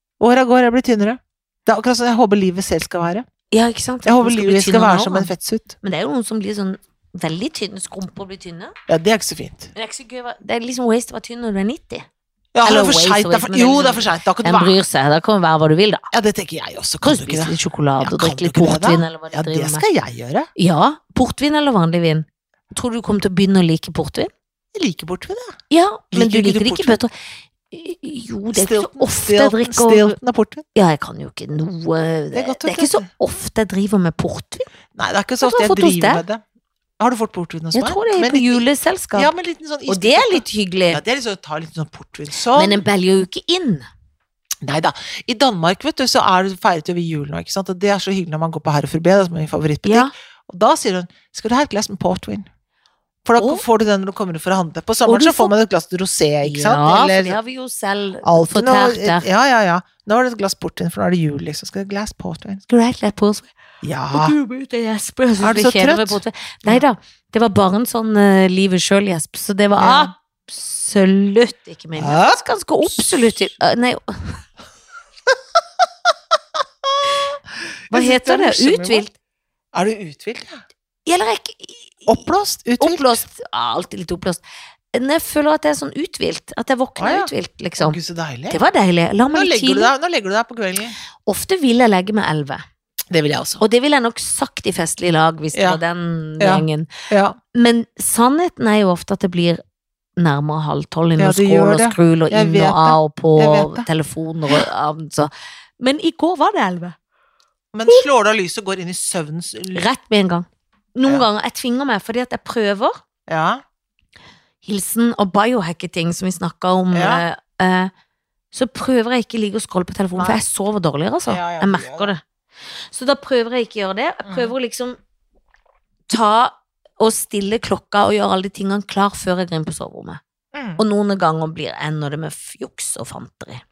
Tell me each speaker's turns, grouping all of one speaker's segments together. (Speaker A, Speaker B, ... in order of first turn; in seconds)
Speaker A: 0.2-3.2, 4.0-5.8, 8.9-9.7, 12.5-14.8, 16.1-20.5, 24.7-25.6, 26.1-27.0, 28.5-30.7, 32.3-33.0, 34.9-36.4, 37.0-42.8, 44.6-52.5, 53.2-57.4, 58.2-62.6, 63.8-64.3, 65.4-66.8, 69.8-70.1, 72.0-73.5, 76.9-77.4, 77.9-79.0, 79.7-80.6, 82.1-83.2, 87.0-88.6, 89.3-91.0, 93.1-93.6, 95.5-95.8, 96.4-97.4, 101.2-103.9, 107.7-109.8, 113.3-113.6, 116.9-117.2, 120.2-120.4, 121.3-122.1, 124.2-124.5, 130.5-130.8
Speaker B: 3.5-5.3, 5.8-8.7, 9.7-12.1, 12.6-16.1, 17.0-19.8, 20.6-24.3, 25.7-27.1, 27.7-30.2, 30.7-34.7, 35.4-36.2, 37.7-39.3, 39.9-41.0, 42.5-43.9, 49.8-50.1, 53.4-53.6, 55.0-55.5, 56.4-59.2, 62.7-63.5, 64.1-74.4, 77.9-79.1, 81.0-82.2, 82.8-84.4, 84.9-88.0, 88.5-89.9, 91.2-92.6, 93.6-96.9, 97.5-99.6, 100.2-107.0, 109.7-113.0, 114.6-117.9, 118.5-122.2, 122.9-125.0, 126.1-130.2, 130.8-133.6